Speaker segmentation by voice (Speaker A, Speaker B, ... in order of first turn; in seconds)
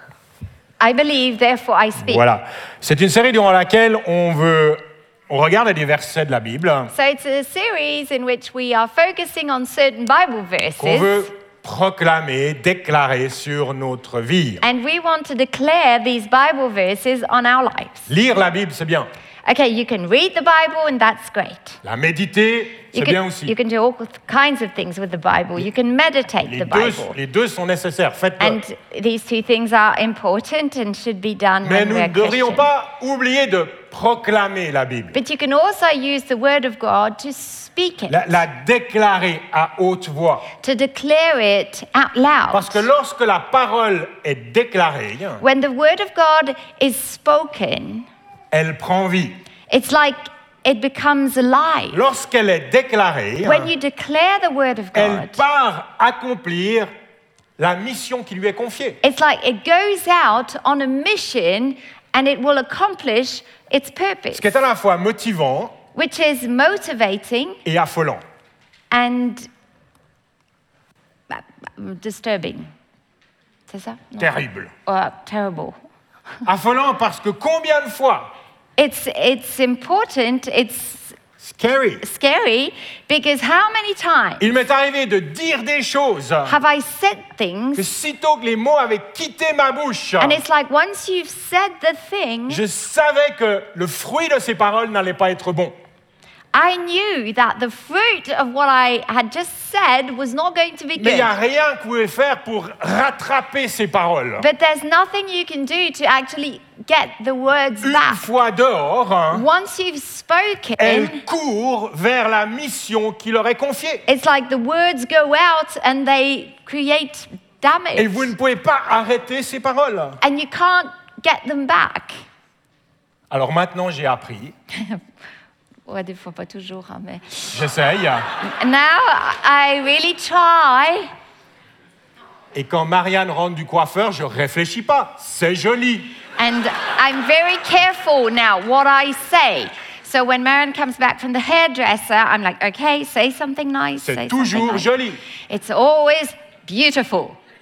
Speaker A: 0.8-2.2, 6.9-11.3, 14.6-18.1, 19.4-21.8, 22.9-27.1, 28.4-32.7, 35.1-38.3, 40.6-42.8, 45.4-48.1, 49.7-52.0, 53.4-55.4, 59.0-64.6, 65.9-67.6, 68.9-69.5, 71.3-72.7, 73.7-74.3, 74.8-75.8, 78.8-81.2, 82.0-84.5, 86.5-87.8, 90.2-92.6, 96.5-101.3, 104.4-108.2, 109.3-111.2, 114.1-118.3, 120.2-122.2, 124.7-125.0, 125.8-127.5, 128.4-131.1, 136.4-147.4
Speaker B: 2.0-6.9, 10.8-14.6, 18.1-19.1, 21.8-23.5, 26.4-28.6, 31.6-35.2, 38.1-40.5, 42.5-45.4, 48.5-49.4, 51.9-53.7, 54.9-56.9, 57.6-59.0, 64.3-65.8, 67.6-68.2, 74.2-74.7, 76.5-78.3, 81.4-82.0, 84.4-86.6, 87.7-90.4, 92.5-95.7, 101.0-104.5, 107.8-109.4, 110.8-114.0, 117.9-120.2, 123.3-124.5, 127.5-128.3, 132.5-136.1, 144.0-145.2